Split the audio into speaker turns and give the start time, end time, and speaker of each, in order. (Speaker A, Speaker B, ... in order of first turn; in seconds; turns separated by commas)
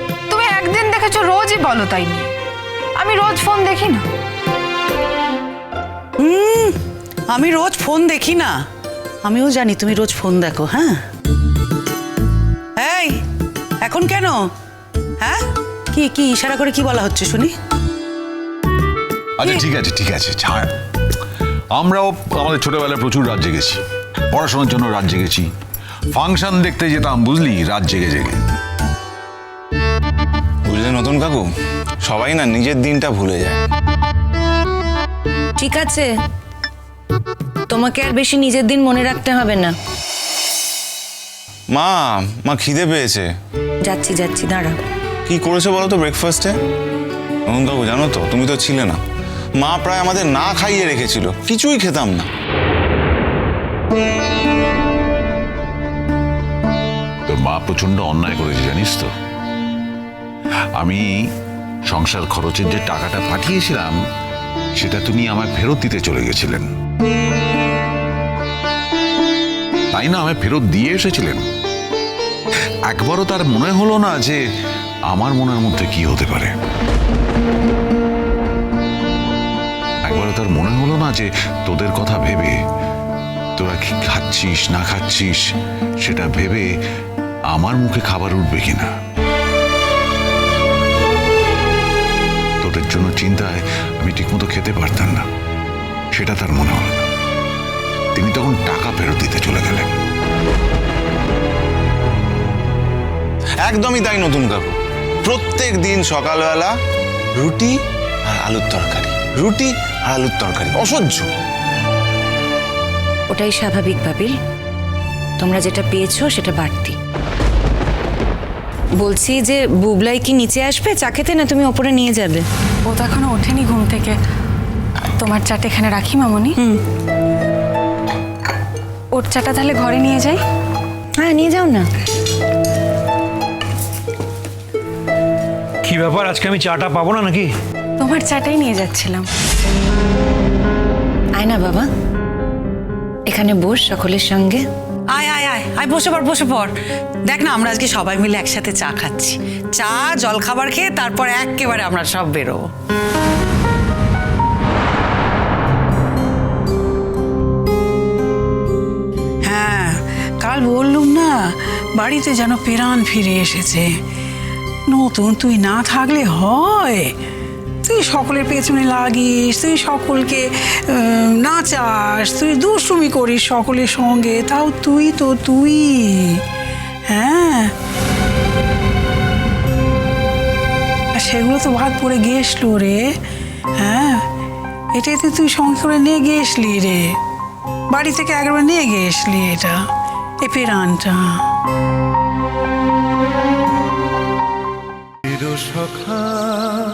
Speaker A: 0.3-2.3, Speaker A: 3.0-4.0, Speaker B: 6.2-6.8, Speaker B: 7.3-8.6, Speaker B: 9.2-11.0, Speaker B: 12.8-13.2, Speaker B: 13.8-14.4, Speaker B: 15.9-17.5, Speaker C: 19.4-20.7, Speaker C: 21.8-23.8, Speaker C: 24.3-25.5, Speaker C: 26.1-28.4, Speaker D: 30.7-31.5, Speaker D: 32.1-33.6, Speaker E: 35.6-36.1, Speaker E: 37.7-39.7, Speaker D: 41.7-43.3, Speaker E: 43.9-44.8, Speaker D: 45.3-46.6, Speaker D: 47.5-49.0, Speaker D: 49.6-52.3, Speaker C: 57.3-59.1, Speaker C: 60.8-61.0, Speaker C: 61.9-64.0, Speaker C: 64.8-66.7, Speaker C: 69.9-71.4, Speaker C: 72.9-74.4, Speaker C: 75.1-76.5, Speaker C: 80.0-82.5, Speaker C: 83.6-85.4, Speaker C: 86.0-86.7, Speaker C: 87.5-88.9, Speaker C: 92.6-95.3, Speaker C: 96.2-97.1, Speaker C: 98.2-99.9, Speaker D: 103.6-106.7, Speaker D: 107.4-107.8, Speaker D: 108.3-111.3, Speaker E: 113.3-114.3, Speaker E: 115.4-117.0, Speaker E: 119.0-122.5, Speaker A: 122.9-124.1, Speaker A: 125.2-126.6, Speaker A: 129.1-130.4, Speaker E: 131.2-131.8, Speaker F: 135.8-137.5, Speaker A: 138.0-139.3, Speaker E: 141.4-141.9, Speaker E: 143.3-144.6, Speaker B: 145.1-146.7, Speaker B: 147.3-152.7, Speaker G: 159.4-161.3, Speaker G: 162.0-163.9, Speaker G: 164.9-167.1, Speaker G: 167.8-176.4, Speaker G: 177.1-177.7, Speaker G: 181.2-183.0, Speaker G: 183.8-184.2, Speaker G: 184.9-187.1, Speaker G: 187.9-189.8, Speaker G: 190.4-191.2, Speaker F: 195.4-195.9